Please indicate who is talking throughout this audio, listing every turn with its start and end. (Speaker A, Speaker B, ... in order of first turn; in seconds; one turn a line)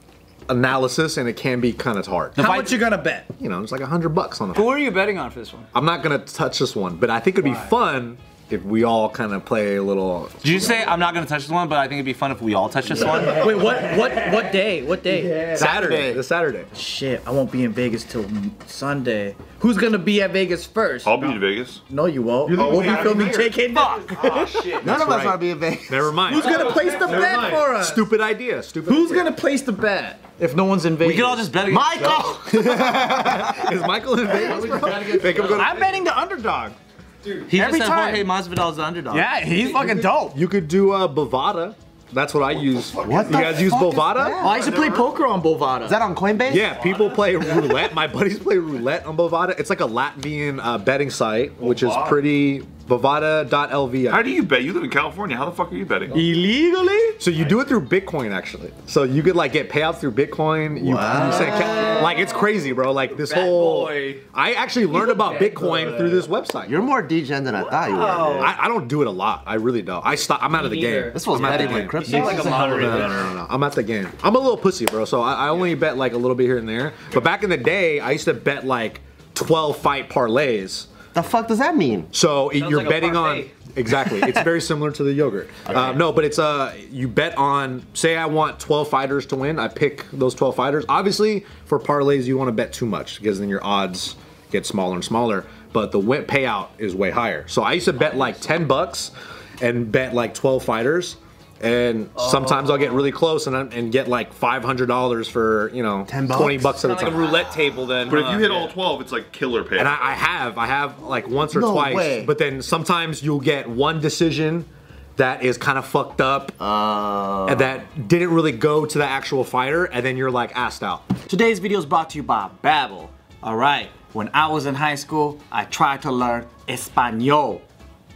Speaker A: 0.5-2.7
Speaker B: 2.4-3.3
Speaker A: 3.3-4.8
Speaker C: 4.5-5.7
Speaker A: 5.7-10.7
Speaker D: 10.4-13.6
Speaker B: 13.1-15.3
Speaker A: 15.4-16.7
Speaker E: 15.5-16.2
Speaker B: 16.7-21.2
Speaker F: 21.0-21.8
Speaker B: 21.9-24.9
Speaker F: 22.5-23.5
Speaker A: 22.5-22.9
Speaker D: 23.7-24.1
Speaker F: 24.2-24.8
Speaker E: 24.8-27.2
Speaker A: 24.9-25.4
Speaker A: 25.9-29.3
Speaker B: 26.3-28.1
Speaker B: 28.9-31.5
Speaker D: 31.0-32.4
Speaker E: 31.6-33.9
Speaker A: 32.5-35.9
Speaker B: 34.4-36.8
Speaker C: 35.2-35.6
Speaker D: 37.5-39.3
Speaker B: 37.5-38.3
Speaker B: 39.1-40.4
Speaker A: 39.6-44.4
Speaker E: 42.9-44.6
Speaker F: 43.0-43.3
Speaker B: 44.4-46.0
Speaker F: 44.6-45.1
Speaker E: 45.8-46.8
Speaker A: 46.5-54.3
Speaker F: 51.6-52.2
Speaker F: 54.1-56.2
Speaker B: 56.1-57.2
Speaker A: 57.2-66.7
Speaker E: 60.8-62.1
Speaker C: 61.1-62.1
Speaker C: 63.1-64.2
Speaker B: 64.9-66.2
Speaker E: 66.6-68.6
Speaker C: 67.8-68.5
Speaker A: 68.4-80.9
Speaker B: 70.7-71.1
Speaker E: 71.1-73.2
Speaker C: 71.5-73.2
Speaker E: 81.1-82.1
Speaker A: 82.1-107.5
Speaker C: 82.5-83.5
Speaker E: 106.1-108.0
Speaker C: 107.4-108.5
Speaker F: 108.1-110.0
Speaker A: 109.8-116.6
Speaker E: 111.5-112.3
Speaker E: 116.6-117.8
Speaker A: 117.5-121.1
Speaker B: 121.2-127.6